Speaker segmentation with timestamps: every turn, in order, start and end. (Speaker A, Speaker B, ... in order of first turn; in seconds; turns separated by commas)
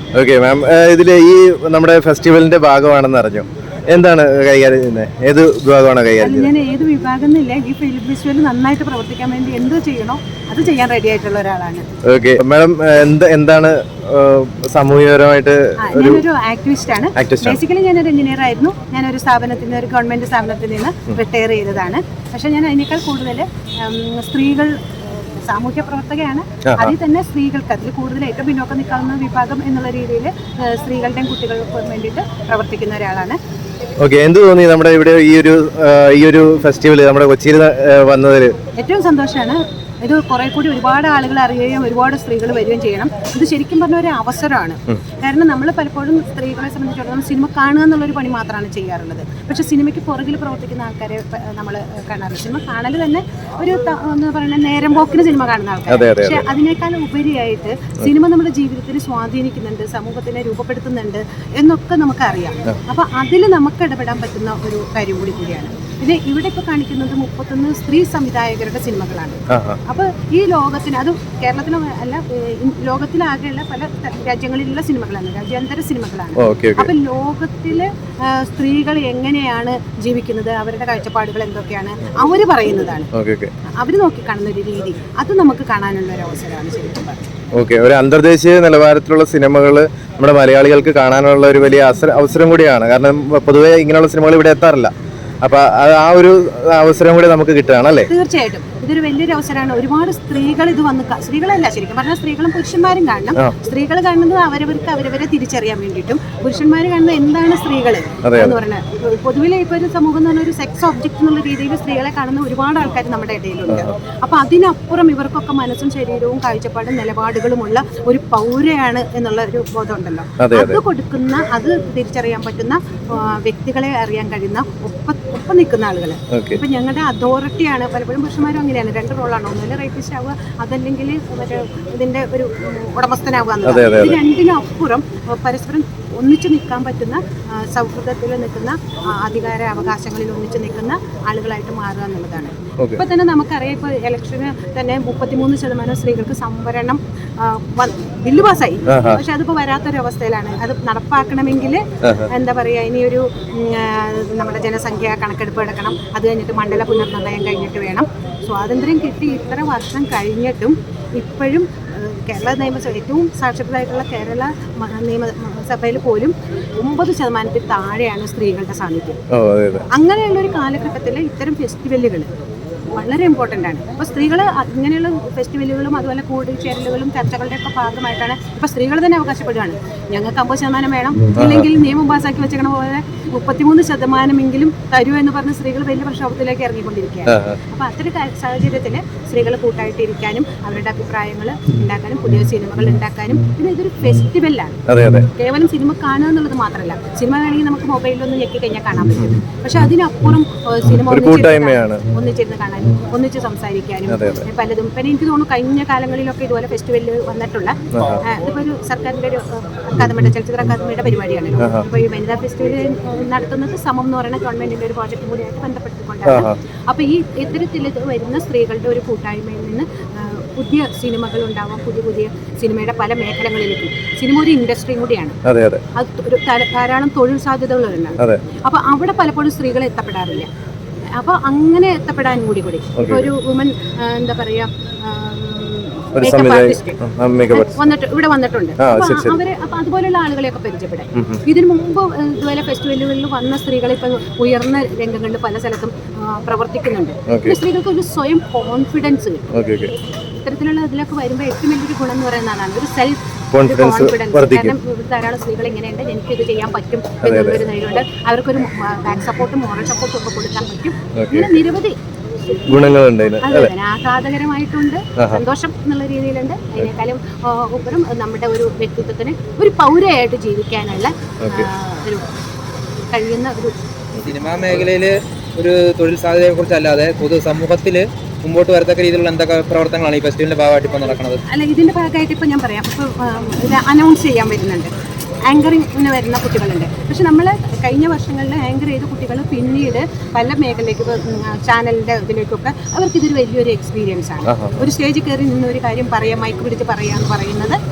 Speaker A: 0.1-6.5, Speaker B: 6.2-11.8, Speaker A: 12.1-16.2, Speaker B: 15.8-33.4, Speaker A: 17.2-17.6, Speaker A: 26.7-26.9, Speaker A: 34.0-38.6, Speaker B: 38.8-83.1, Speaker A: 55.9-56.5, Speaker A: 69.5-69.8, Speaker A: 76.4-76.9, Speaker A: 83.1-83.5, Speaker B: 83.8-87.3, Speaker A: 87.6-94.9, Speaker A: 95.4-98.1, Speaker B: 98.1-169.2, Speaker A: 108.2-108.6, Speaker A: 120.4-120.8, Speaker A: 126.3-126.6, Speaker A: 133.7-134.2, Speaker A: 148.9-149.2, Speaker A: 169.3-169.9, Speaker B: 169.9-172.3, Speaker B: 173.0-225.4, Speaker A: 181.4-181.7, Speaker A: 187.3-187.6, Speaker A: 194.9-195.3, Speaker A: 201.0-202.0, Speaker A: 204.1-204.4, Speaker A: 207.9-208.2, Speaker A: 216.3-216.6, Speaker A: 225.4-225.8, Speaker B: 226.0-230.5, Speaker B: 231.2-249.5, Speaker A: 233.0-233.3, Speaker A: 236.2-237.8, Speaker A: 238.8-239.4, Speaker A: 241.2-241.4, Speaker A: 247.3-247.6, Speaker A: 249.5-249.9, Speaker B: 250.4-262.0, Speaker A: 253.5-254.8, Speaker A: 257.2-257.6, Speaker A: 261.2-261.6, Speaker A: 262.7-263.7, Speaker B: 262.7-272.3, Speaker B: 273.1-273.8, Speaker C: 274.3-281.4, Speaker B: 281.5-284.9, Speaker B: 285.5-297.8, Speaker A: 294.5-294.8